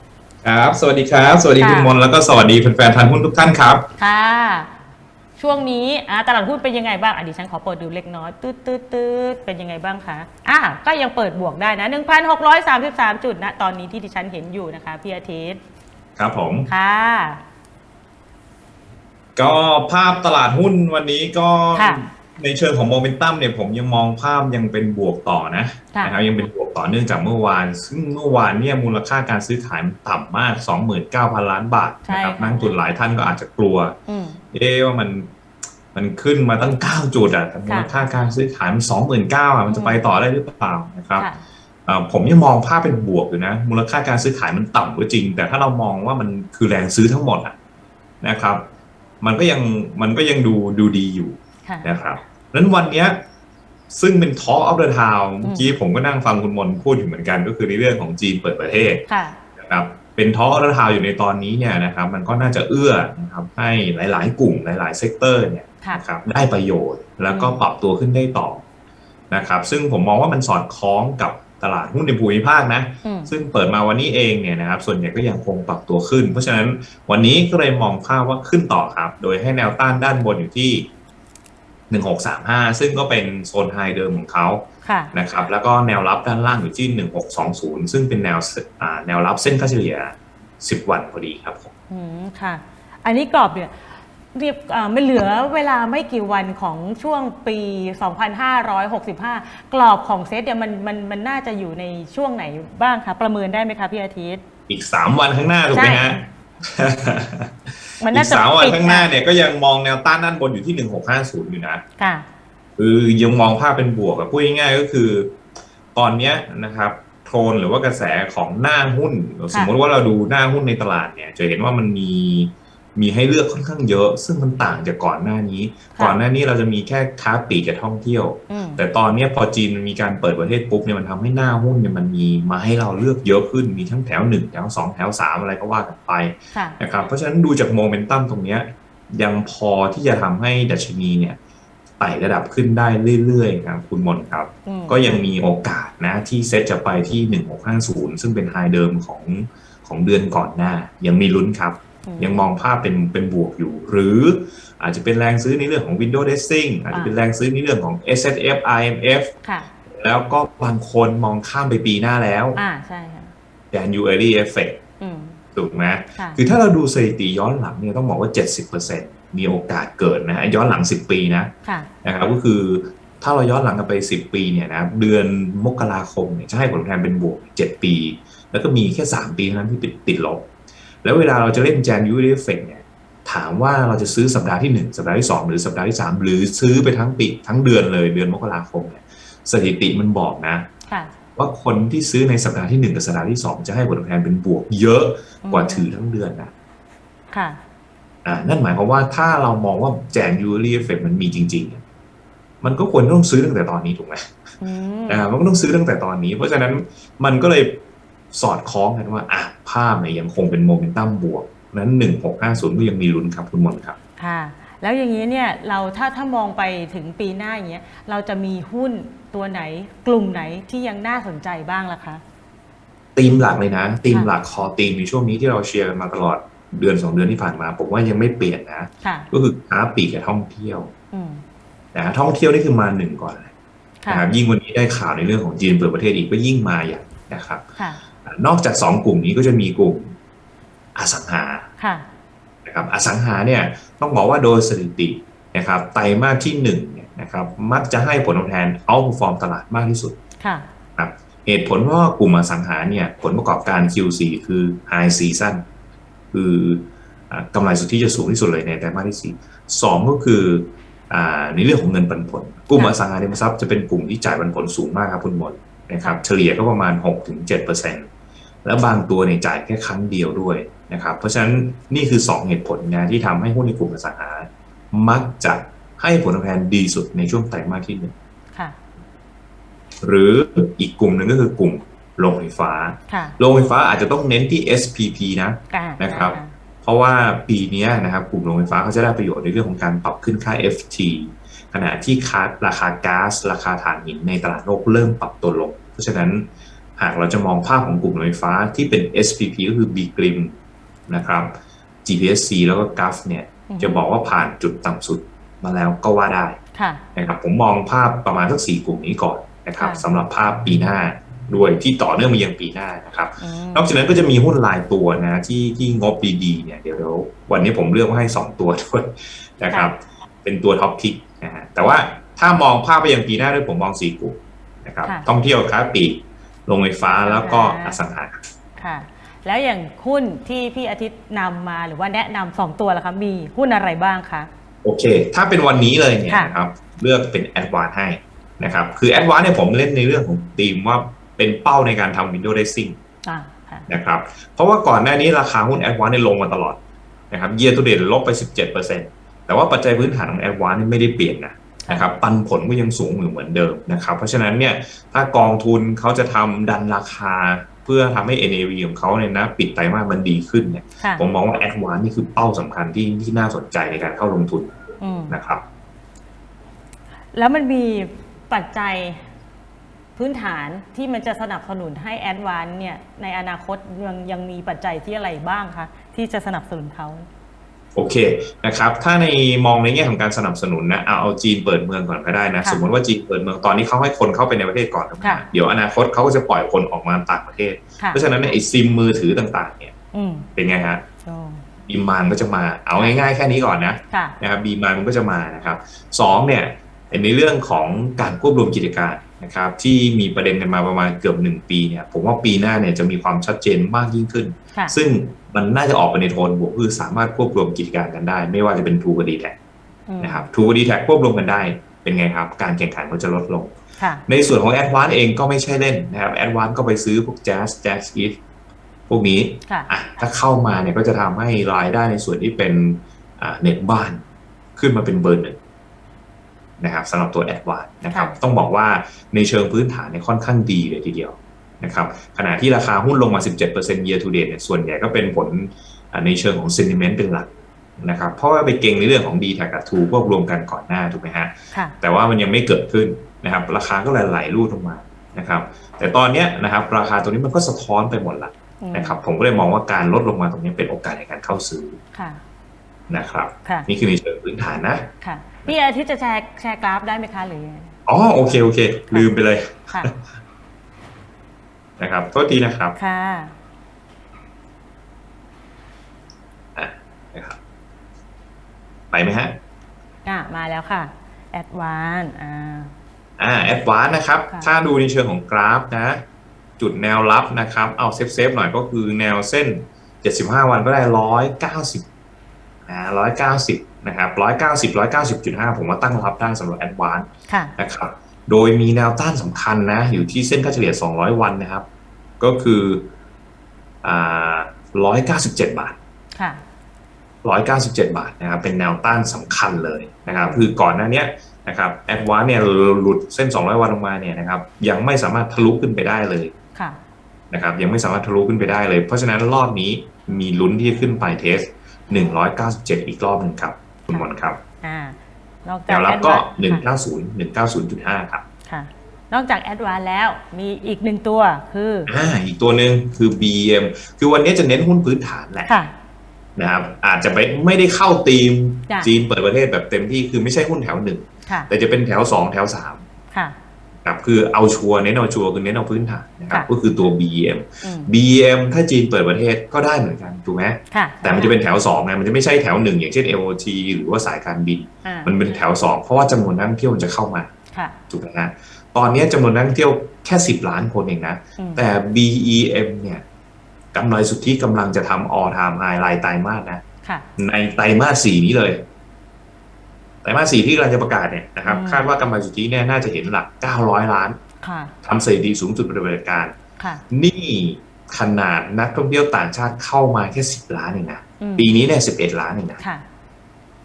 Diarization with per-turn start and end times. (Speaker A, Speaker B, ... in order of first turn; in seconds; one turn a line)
Speaker A: 0.4-3.9
Speaker B: 1.6-1.9
Speaker B: 4.0-4.7
Speaker B: 5.4-15.6
Speaker A: 16.2-16.7
Speaker B: 16.7-17.4
Speaker A: 19.4-34.0
Speaker B: 21.7-22.1
Speaker B: 25.9-26.2
Speaker B: 32.0-32.7
Speaker B: 34.1-34.4
Speaker A: 34.5-35.3
Speaker A: 35.9-41.3
Speaker B: 37.7-38.0
Speaker B: 39.7-40.0
Speaker A: 41.9-47.5
Speaker A: 48.2-48.6
Speaker A: 49.2-53.2
Speaker B: 51.6-51.9
Speaker A: 53.9-59.0
Speaker B: 55.4-55.7
Speaker B: 59.1-59.4
Speaker A: 59.6-68.6
Speaker B: 67.3-67.6
Speaker A: 69.3-80.9
Speaker B: 73.0-73.3
Speaker A: 81.9-91.7
Speaker B: 84.8-85.1
Speaker B: 91.9-93.8
Speaker B: 94.3-104.4
Speaker A: 104.7-107.5
Speaker B: 105.7-106.1
Speaker B: 108.0-109.1
Speaker A: 108.1-111.8
Speaker B: 112.0-112.2
Speaker A: 112.8-115.4
Speaker A: 115.9-141.4
Speaker B: 125.9-126.2
Speaker B: 128.5-128.8
Speaker B: 136.5-136.8
Speaker A: 142.0-159.3
Speaker B: 144.7-145.3
Speaker B: 152.1-152.5
Speaker B: 159.4-159.7
Speaker A: 159.9-162.6
Speaker B: 162.6-163.3
Speaker A: 163.7-164.8
Speaker B: 165.0-165.4
Speaker A: 165.5-171.5
Speaker B: 166.2-166.4
Speaker B: 171.6-171.9
Speaker A: 172.0-180.5
Speaker A: 181.0-190.7
Speaker B: 190.9-191.1
Speaker A: 191.4-196.5
Speaker B: 195.4-195.9
Speaker B: 197.3-197.6
Speaker A: 198.2-201.8
Speaker A: 202.6-204.3
Speaker B: 204.6-205.3
Speaker A: 205.1-207.8
Speaker A: 208.3-213.9
Speaker B: 214.2-222.2
Speaker A: 223.1-230.9
Speaker B: 229.0-229.3
Speaker B: 231.1-231.4
Speaker A: 231.9-233.5
Speaker A: 234.1-237.6
Speaker B: 237.8-238.0
Speaker A: 238.2-240.1
Speaker A: 240.9-241.7
Speaker B: 241.8-242.1
Speaker A: 242.6-250.2
Speaker B: 250.4-250.7
Speaker A: 251.0-255.6
Speaker A: 256.3-268.1
Speaker A: 268.6-278.1
Speaker A: 280.0-300.5
Speaker B: 283.1-283.4
Speaker B: 285.7-286.5
Speaker A: 301.1-301.5
Speaker A: 302.0-306.6
Speaker B: 303.7-304.1
Speaker B: 306.7-307.0
Speaker A: 307.1-328.4
Speaker B: 309.8-310.0
Speaker B: 313.4-313.9
Speaker B: 327.2-328.0
Speaker B: 328.8-334.5
Speaker A: 334.8-343.0
Speaker B: 336.3-336.5
Speaker B: 343.2-343.9
Speaker A: 343.9-346.8
Speaker A: 347.3-364.7
Speaker B: 361.0-361.2
Speaker B: 365.0-365.4
Speaker A: 365.3-365.6
Speaker B: 367.3-369.3
Speaker B: 370.1-377.3
Speaker A: 377.9-389.9
Speaker B: 385.2-385.4
Speaker B: 390.1-390.5
Speaker A: 390.6-391.0
Speaker B: 391.2-391.6
Speaker A: 391.9-409.6
Speaker B: 394.1-394.4
Speaker B: 410.1-410.5
Speaker A: 410.2-413.7
Speaker B: 414.0-414.2
Speaker A: 414.3-418.4
Speaker A: 419.1-424.2
Speaker A: 424.8-425.6
Speaker A: 426.8-452.0
Speaker B: 448.8-449.2
Speaker B: 452.1-452.4
Speaker A: 453.1-455.1
Speaker B: 455.2-457.9
Speaker A: 458.1-460.1
Speaker A: 462.0-462.9
Speaker B: 462.9-463.5
Speaker A: 466.8-467.6
Speaker A: 469.1-469.6
Speaker B: 470.2-472.9
Speaker A: 473.4-476.2
Speaker A: 476.8-482.0
Speaker A: 482.9-491.8
Speaker B: 487.5-487.8
Speaker A: 492.4-493.1
Speaker A: 494.0-496.0
Speaker B: 496.3-496.6
Speaker A: 497.4-506.5
Speaker B: 506.7-507.0
Speaker A: 507.5-514.6
Speaker B: 514.8-516.8
Speaker A: 515.9-518.4
Speaker B: 518.6-522.1
Speaker A: 522.1-525.7
Speaker B: 525.7-525.9
Speaker A: 526.5-533.0
Speaker A: 534.0-547.5
Speaker B: 537.8-538.1
Speaker B: 540.9-541.6
Speaker B: 545.0-545.4
Speaker A: 548.1-553.2
Speaker B: 551.6-551.8
Speaker A: 553.9-556.8
Speaker A: 557.4-558.8
Speaker A: 560.2-564.4
Speaker B: 561.6-562.1
Speaker B: 564.6-564.9
Speaker A: 565.0-566.5
Speaker B: 566.8-567.0
Speaker A: 567.1-572.8
Speaker B: 571.4-571.7
Speaker B: 572.8-573.0